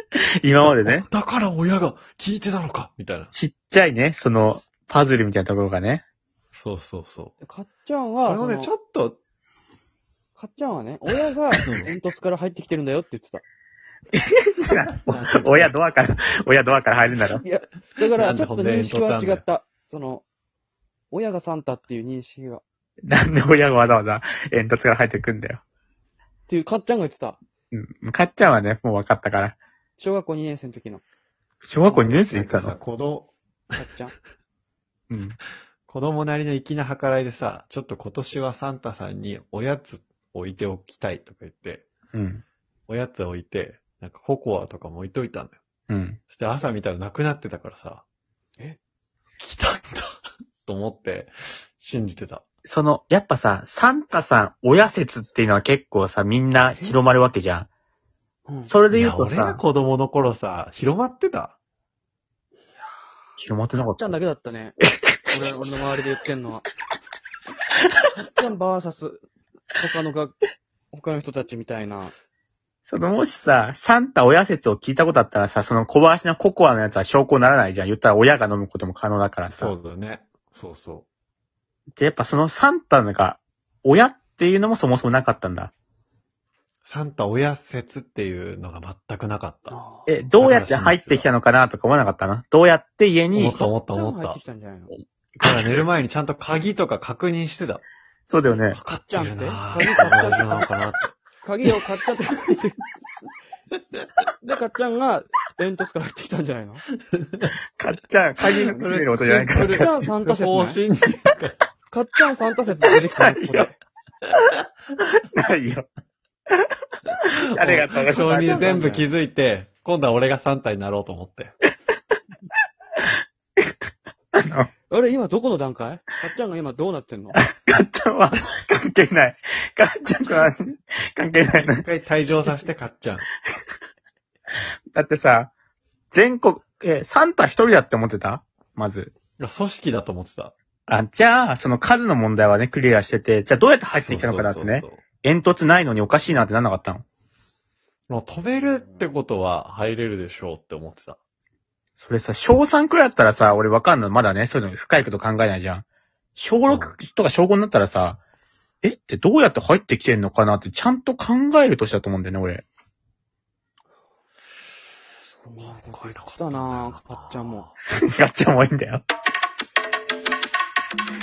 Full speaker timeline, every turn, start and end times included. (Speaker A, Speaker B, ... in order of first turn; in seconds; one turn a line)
Speaker A: 0.4-1.1
Speaker B: 0.6-3.3
Speaker A: 3.3-6.0
Speaker B: 6.5-7.3
Speaker C: 7.4-8.7
Speaker B: 8.2-9.2
Speaker C: 10.3-13.4
Speaker B: 11.6-11.9
Speaker A: 14.1-17.4
Speaker B: 15.1-15.7
Speaker C: 17.3-20.2
Speaker B: 18.2-19.4
Speaker C: 21.1-22.6
Speaker A: 23.1-25.6
Speaker C: 26.5-27.4
Speaker A: 27.7-29.6
Speaker C: 30.0-31.0
Speaker A: 31.6-32.7
Speaker B: 31.9-33.8
Speaker C: 33.7-34.1
Speaker A: 35.1-35.4
Speaker B: 35.9-41.9
Speaker A: 42.1-42.4
Speaker B: 42.9-45.6
Speaker A: 45.9-46.2
Speaker B: 46.3-48.0
Speaker B: 49.4-52.4
Speaker A: 52.6-57.7
Speaker C: 58.5-58.7
Speaker A: 58.6-59.6
Speaker B: 58.9-61.6
Speaker A: 63.4-64.2
Speaker C: 63.9-64.8
Speaker A: 65.1-65.3
Speaker C: 65.3-66.7
Speaker C: 68.1-70.4
Speaker C: 70.9-72.1
Speaker A: 72.9-79.7
Speaker B: 79.5-81.0
Speaker A: 82.0-85.7
Speaker B: 86.8-89.8
Speaker C: 89.7-90.1
Speaker A: 90.1-93.7
Speaker B: 90.4-91.3
Speaker B: 93.3-94.4
Speaker C: 93.9-94.9
Speaker B: 95.4-97.8
Speaker A: 98.3-98.8
Speaker B: 98.7-101.2
Speaker C: 98.7-100.7
Speaker C: 101.4-102.8
Speaker C: 104.4-106.8
Speaker A: 107.8-109.9
Speaker B: 108.6-111.6
Speaker C: 109.7-110.8
Speaker C: 111.9-113.8
Speaker A: 113.2-113.7
Speaker A: 115.3-115.9
Speaker A: 116.5-118.8
Speaker B: 117.5-121.5
Speaker C: 118.3-119.1
Speaker A: 124.4-124.7
Speaker C: 124.9-127.4
Speaker A: 127.3-131.8
Speaker B: 131.7-133.2
Speaker A: 134.9-135.5
Speaker A: 136.1-139.1
Speaker B: 139.4-140.5
Speaker A: 140.9-147.0
Speaker B: 144.0-145.0
Speaker B: 148.1-151.2
Speaker A: 152.0-155.8
Speaker A: 156.3-158.2
Speaker B: 156.7-156.9
Speaker A: 158.8-162.6
Speaker C: 165.3-167.7
Speaker B: 165.6-167.7
Speaker A: 168.1-169.0